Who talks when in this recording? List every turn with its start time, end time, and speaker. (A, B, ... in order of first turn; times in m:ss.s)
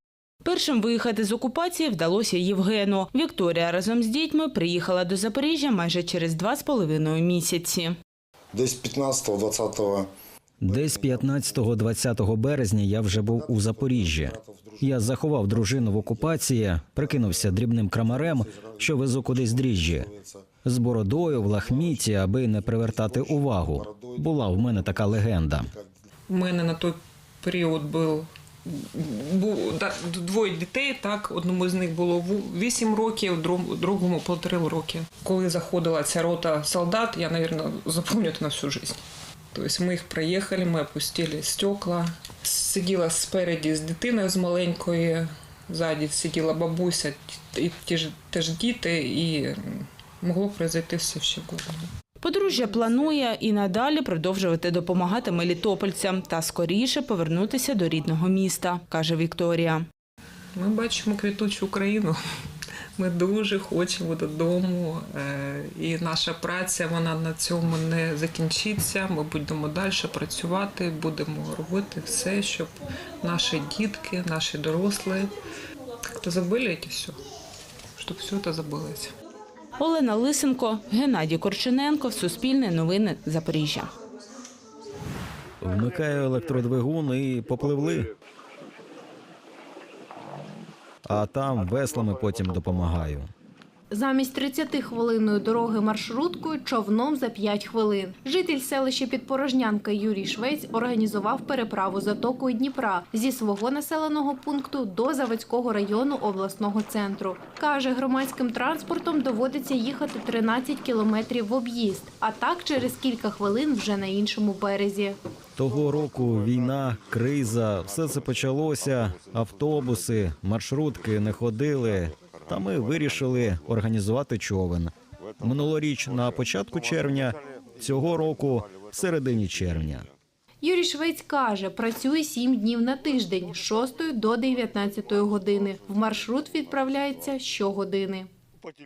0:00.4-0:08.0 A
0:08.5-0:10.1 B
0:10.6-0:20.1 C
0:13.4-0:14.8 B
0:20.0-0:20.2 B
0:20.6-0:25.7 C
0:24.0-0:24.2 B
0:26.3-0:39.0 D
0:39.5-0:51.9 D
0:52.2-0:59.9 A
1:00.6-1:02.2 D
1:03.0-1:15.3 D
1:16.1-1:17.2 D
1:18.0-1:19.1 D
1:19.8-1:23.9 A
1:25.6-1:28.1 C
1:31.0-1:33.3 C
1:33.9-1:55.2 E
1:55.6-2:10.1 C
2:10.6-2:18.3 E